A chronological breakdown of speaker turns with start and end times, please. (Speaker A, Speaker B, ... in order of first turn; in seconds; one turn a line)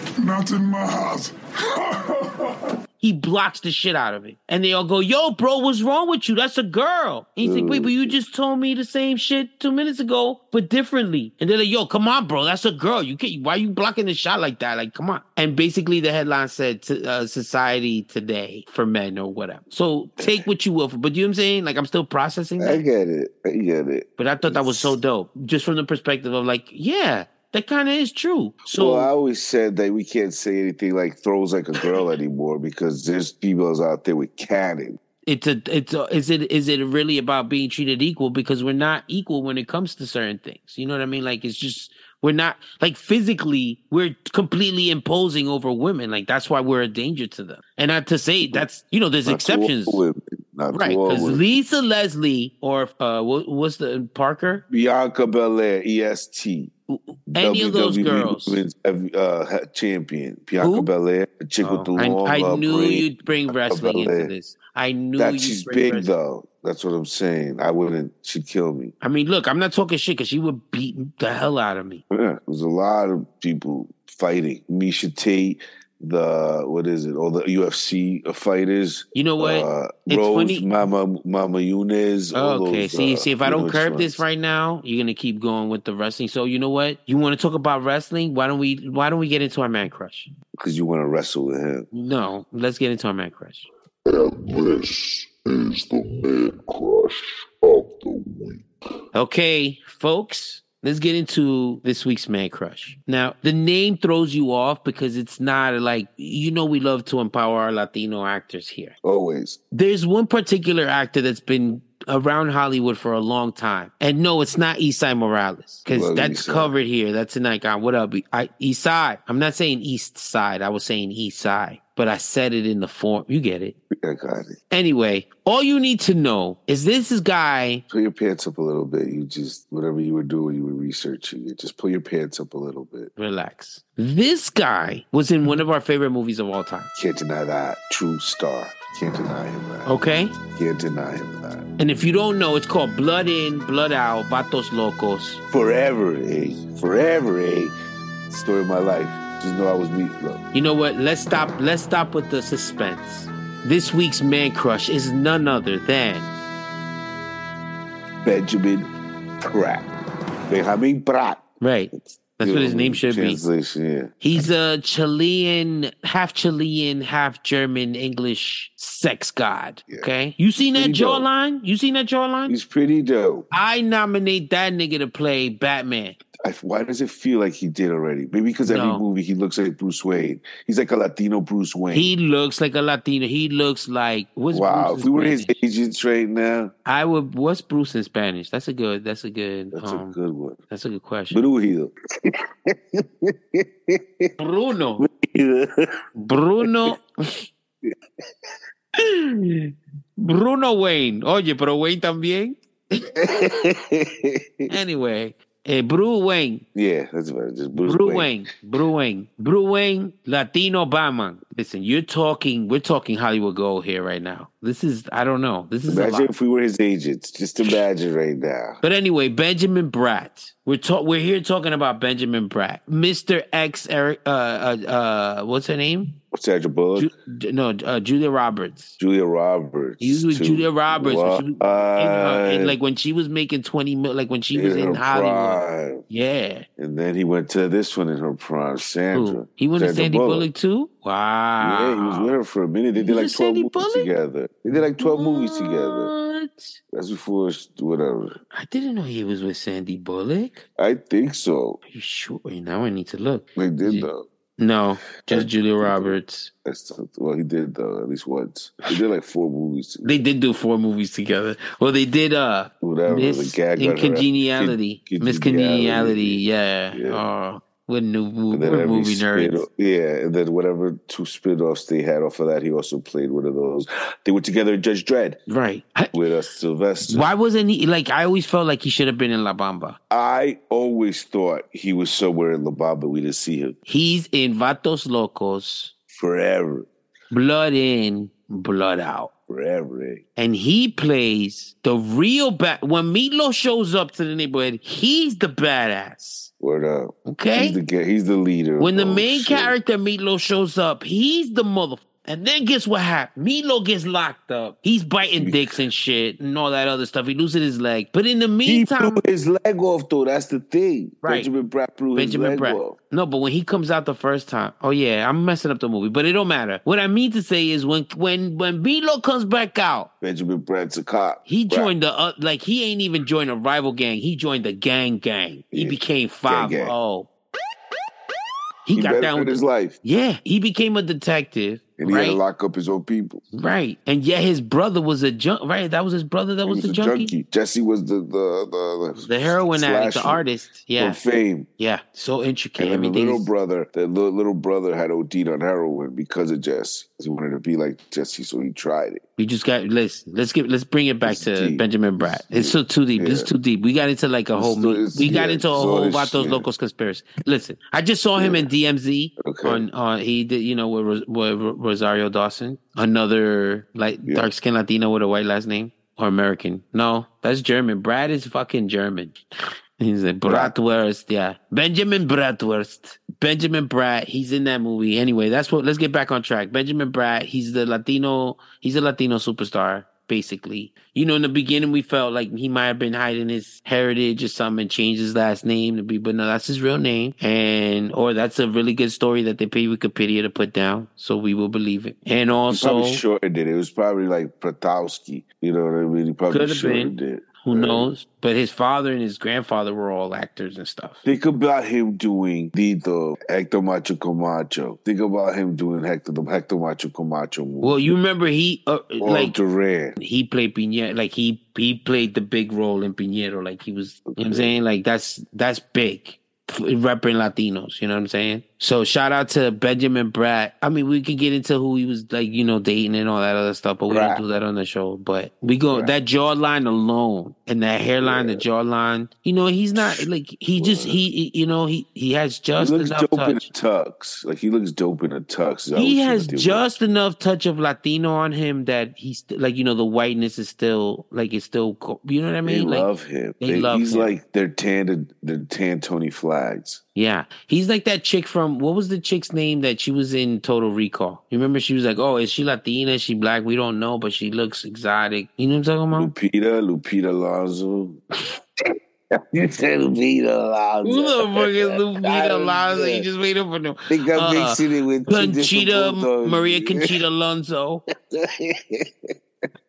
Speaker A: 0.2-2.7
Speaker B: 3.0-22.9
Speaker C: 7.4-8.2
Speaker C: 22.6-25.0
Speaker B: 24.2-29.1
Speaker C: 28.7-35.0
Speaker B: 35.3-50.0
Speaker C: 49.3-51.4
Speaker B: 50.7-54.6
Speaker C: 54.7-56.7
Speaker B: 56.9-58.6
Speaker C: 57.3-64.3
Speaker B: 60.6-60.9
Speaker B: 61.6-66.1
Speaker C: 65.2-68.9
Speaker B: 69.0-72.0
Speaker C: 72.1-84.2
Speaker B: 79.1-80.7
Speaker B: 82.3-90.3
Speaker C: 90.6-91.9
Speaker B: 91.9-93.7
Speaker D: 94.1-98.7
Speaker B: 99.1-109.0
Speaker C: 109.0-109.6
Speaker B: 109.7-123.8
Speaker C: 115.9-116.8
Speaker C: 123.9-124.6
Speaker B: 124.7-127.8
Speaker C: 127.9-133.1
Speaker B: 133.2-136.9
Speaker C: 136.9-140.0
Speaker B: 139.9-140.3
Speaker C: 140.5-141.7
Speaker B: 141.8-145.4
Speaker C: 145.5-147.7
Speaker C: 148.3-150.4
Speaker B: 150.5-156.3
Speaker C: 158.2-158.9
Speaker C: 159.4-159.9
Speaker C: 160.5-161.4
Speaker B: 161.6-163.4
Speaker C: 162.0-164.2
Speaker B: 164.2-172.6
Speaker C: 169.9-171.3
Speaker C: 172.5-173.5
Speaker B: 173.5-176.2
Speaker C: 176.4-182.1
Speaker B: 178.7-179.0
Speaker B: 181.9-185.6
Speaker C: 184.5-186.7
Speaker B: 186.8-190.2
Speaker C: 189.7-190.6
Speaker B: 190.7-191.4
Speaker C: 191.3-194.3
Speaker B: 194.4-195.1
Speaker C: 195.0-195.9
Speaker B: 196.2-197.3
Speaker C: 196.6-196.9
Speaker B: 199.0-202.6
Speaker C: 203.2-204.7
Speaker B: 204.7-206.6
Speaker C: 206.8-208.3
Speaker B: 207.8-216.3
Speaker C: 215.9-218.8
Speaker B: 218.8-226.1
Speaker C: 226.3-227.1
Speaker B: 227.0-229.0
Speaker C: 229.0-232.8
Speaker B: 230.0-236.7
Speaker C: 234.5-236.0
Speaker C: 236.8-240.5
Speaker B: 239.1-242.3
Speaker C: 241.6-246.1
Speaker B: 243.0-244.1
Speaker B: 245.0-246.8
Speaker C: 246.9-248.4
Speaker B: 248.5-250.7
Speaker C: 250.8-251.8
Speaker B: 251.9-256.5
Speaker C: 253.6-254.3
Speaker C: 255.3-260.1
Speaker B: 260.0-269.6
Speaker C: 262.8-266.4
Speaker C: 266.9-267.2
Speaker C: 268.5-275.4
Speaker B: 275.5-276.1
Speaker C: 276.1-277.3
Speaker B: 277.1-280.0
Speaker C: 280.1-283.8
Speaker B: 283.9-285.9
Speaker C: 286.1-286.9
Speaker B: 287.3-289.3
Speaker C: 289.5-290.2
Speaker B: 290.4-296.5
Speaker C: 296.6-299.8
Speaker B: 297.3-297.8
Speaker B: 298.8-309.2
Speaker C: 305.4-305.8
Speaker C: 308.6-313.0
Speaker B: 311.2-311.5
Speaker B: 312.1-320.1
Speaker C: 320.2-321.9
Speaker B: 321.5-327.3
Speaker C: 325.7-326.9
Speaker B: 328.9-332.4
Speaker C: 328.9-330.0
Speaker C: 332.0-333.4
Speaker B: 333.5-337.3
Speaker C: 336.7-340.4
Speaker B: 339.2-341.2
Speaker C: 341.0-341.7
Speaker B: 341.8-343.5
Speaker C: 342.8-349.2
Speaker B: 349.4-369.4
Speaker C: 351.2-353.5
Speaker C: 354.6-356.7
Speaker C: 358.4-358.7
Speaker C: 359.4-359.8
Speaker B: 370.0-393.2
Speaker C: 370.5-370.7
Speaker C: 392.7-398.1
Speaker B: 396.5-401.2
Speaker C: 401.2-408.1
Speaker B: 407.8-409.6
Speaker C: 409.2-410.2
Speaker B: 410.2-433.7
Speaker C: 414.3-414.8
Speaker C: 424.1-424.4
Speaker C: 428.2-428.6
Speaker C: 430.0-430.2
Speaker C: 430.8-431.2
Speaker C: 432.8-436.9
Speaker B: 435.9-443.1
Speaker C: 442.6-447.0
Speaker B: 443.6-444.3
Speaker B: 447.1-456.3
Speaker C: 456.1-458.2
Speaker C: 459.5-463.3
Speaker B: 461.0-468.0
Speaker C: 464.1-467.2
Speaker C: 468.3-469.3